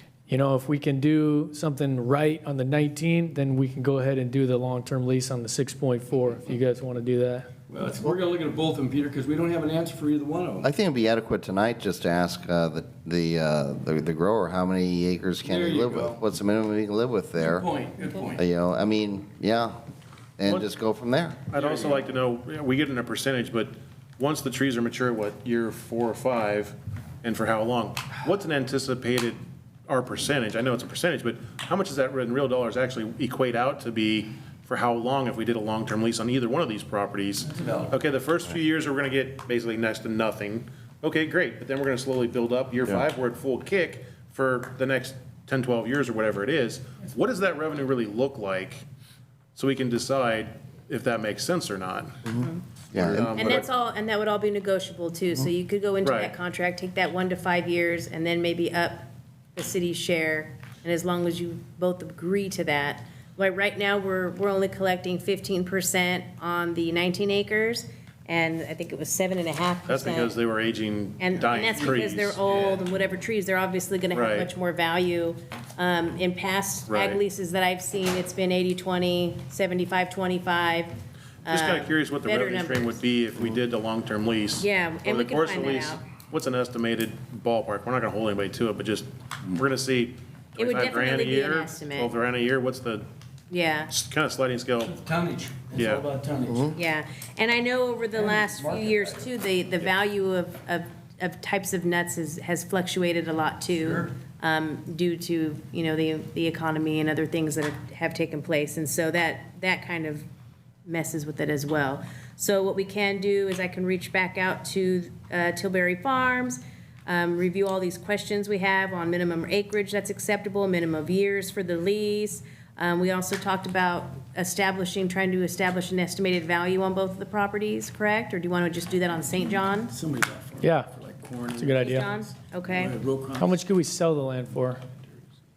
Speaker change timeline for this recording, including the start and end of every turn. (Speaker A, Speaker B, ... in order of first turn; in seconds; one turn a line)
Speaker A: 0.3-7.5
Speaker B: 7.7-10.7
Speaker C: 10.6-17.7
Speaker B: 15.4-16.2
Speaker B: 17.4-18.4
Speaker C: 18.4-19.8
Speaker C: 20.4-21.4
Speaker D: 21.5-48.8
Speaker B: 21.6-22.1
Speaker B: 37.4-38.0
Speaker D: 49.6-52.2
Speaker C: 52.3-53.3
Speaker D: 52.9-53.7
Speaker E: 53.3-70.3
Speaker D: 56.0-56.3
Speaker D: 69.9-72.6
Speaker E: 71.2-81.0
Speaker D: 74.1-74.5
Speaker D: 76.9-77.2
Speaker E: 81.5-83.0
Speaker D: 81.5-93.1
Speaker E: 84.6-86.0
Speaker E: 90.6-92.1
Speaker E: 93.5-93.9
Speaker D: 93.9-94.9
Speaker B: 94.8-96.7
Speaker D: 95.8-96.0
Speaker C: 96.5-96.8
Speaker E: 96.8-110.3
Speaker B: 98.2-99.3
Speaker B: 103.7-104.1
Speaker E: 110.9-129.9
Speaker B: 129.3-133.6
Speaker A: 130.6-130.9
Speaker A: 131.6-132.1
Speaker E: 131.8-132.9
Speaker A: 133.4-134.8